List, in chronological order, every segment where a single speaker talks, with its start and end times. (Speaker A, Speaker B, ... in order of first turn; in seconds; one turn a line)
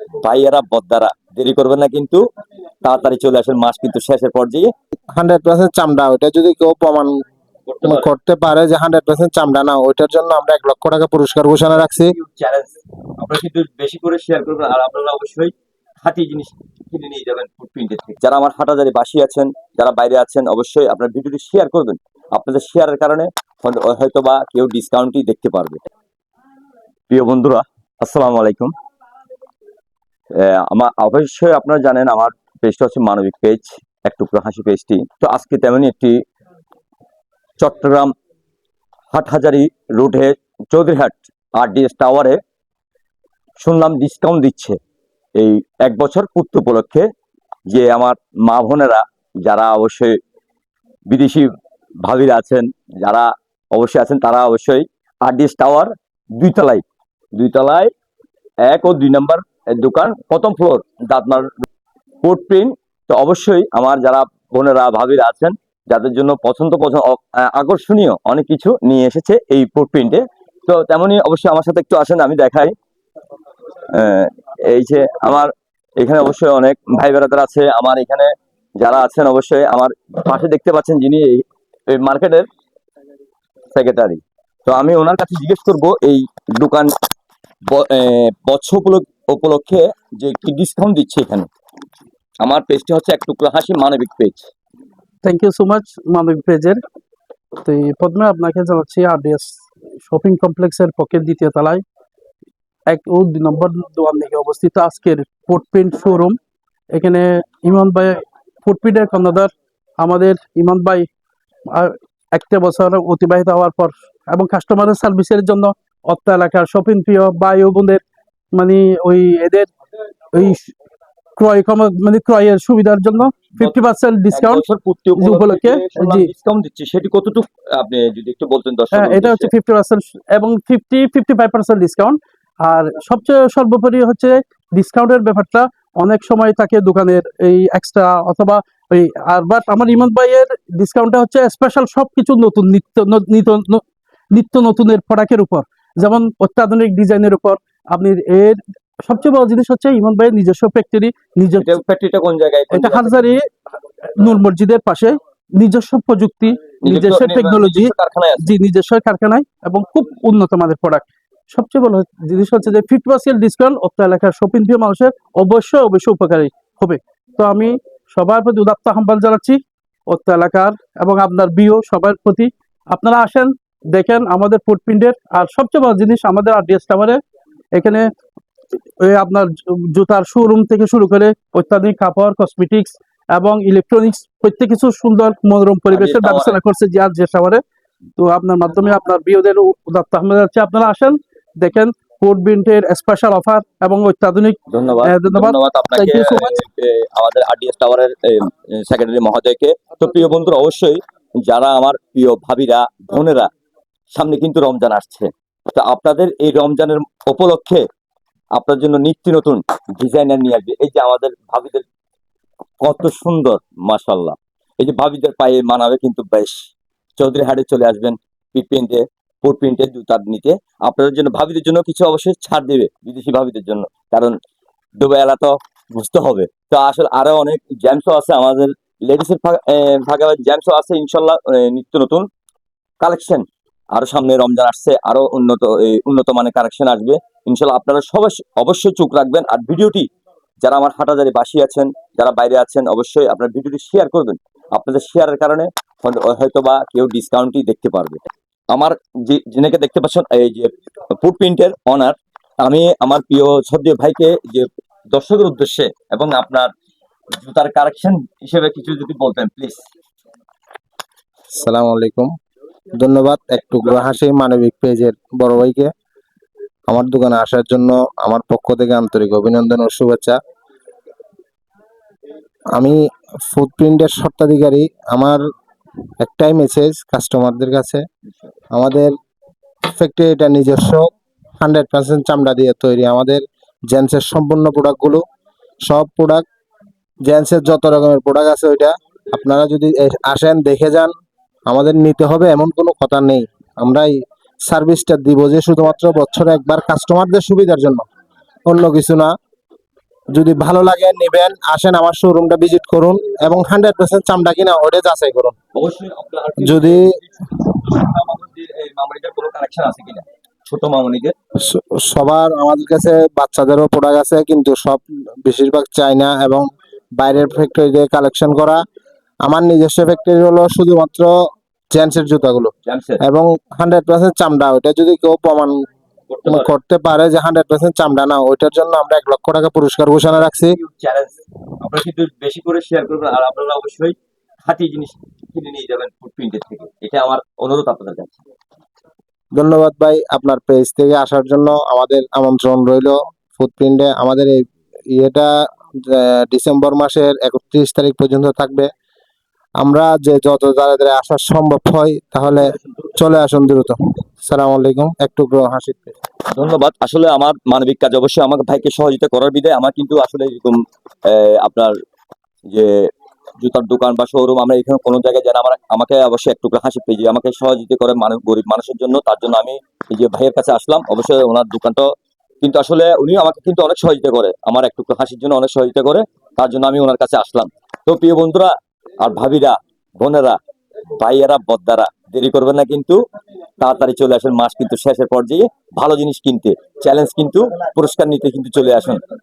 Speaker A: 0.2-2.2
Speaker A: 2.8-4.7
Speaker B: 5.2-7.2
Speaker A: 7.7-8.1
Speaker B: 7.8-12.1
Speaker A: 11.9-15.5
Speaker A: 16.0-25.9
Speaker A: 27.1-28.7
Speaker A: 30.3-36.2
Speaker A: 37.6-38.1
Speaker A: 39.1-42.4
Speaker A: 43.6-44.8
Speaker A: 45.4-47.1
Speaker A: 47.7-50.2
Speaker A: 51.1-51.5
Speaker A: 52.0-56.8
Speaker A: 57.4-57.9
Speaker A: 58.7-61.5
Speaker A: 62.2-72.7
Speaker A: 73.9-82.5
Speaker A: 83.7-86.9
Speaker A: 87.7-91.5
Speaker A: 92.4-94.5
Speaker C: 95.2-96.8
Speaker C: 97.6-101.8
Speaker C: 102.9-106.4
Speaker C: 106.9-111.1
Speaker C: 111.7-118.0
Speaker C: 118.5-119.7
Speaker C: 120.3-120.7
Speaker C: 121.4-124.6
Speaker A: 124.3-129.5
Speaker C: 125.2-126.3
Speaker C: 128.9-151.8
Speaker A: 151.6-153.3
Speaker C: 152.7-153.5
Speaker C: 154.2-177.2
Speaker A: 156.8-158.5
Speaker C: 177.7-178.1
Speaker C: 179.0-187.6
Speaker A: 185.9-186.6
Speaker C: 188.2-196.6
Speaker A: 194.7-203.5
Speaker A: 204.1-207.8
Speaker A: 208.6-211.9
Speaker A: 212.8-224.4
Speaker A: 225.0-232.3
Speaker A: 233.0-240.1
Speaker A: 240.6-256.7
Speaker A: 257.4-259.8
Speaker B: 261.6-262.3
Speaker B: 263.0-265.9
Speaker B: 266.9-270.4
Speaker B: 272.7-275.4
Speaker B: 276.2-278.0
Speaker B: 278.7-279.1
Speaker B: 279.9-281.1
Speaker B: 281.6-285.2
Speaker B: 285.9-286.4
Speaker B: 287.3-291.1
Speaker B: 291.7-298.1
Speaker B: 298.7-299.3
Speaker B: 300.3-305.6
Speaker A: 305.7-311.4
Speaker B: 306.6-307.1
Speaker B: 311.6-316.7
Speaker B: 317.2-318.8
Speaker B: 319.5-321.3
Speaker B: 321.9-325.8
Speaker A: 322.9-323.2
Speaker A: 326.3-326.7
Speaker B: 326.5-330.8
Speaker A: 330.7-334.1
Speaker A: 334.7-338.4
Speaker B: 339.6-345.5
Speaker B: 346.1-348.9
Speaker B: 349.8-356.1
Speaker A: 352.6-353.6
Speaker A: 356.6-362.0
Speaker A: 362.7-372.1
Speaker A: 372.6-380.6
Speaker A: 381.2-383.2
Speaker A: 383.8-389.2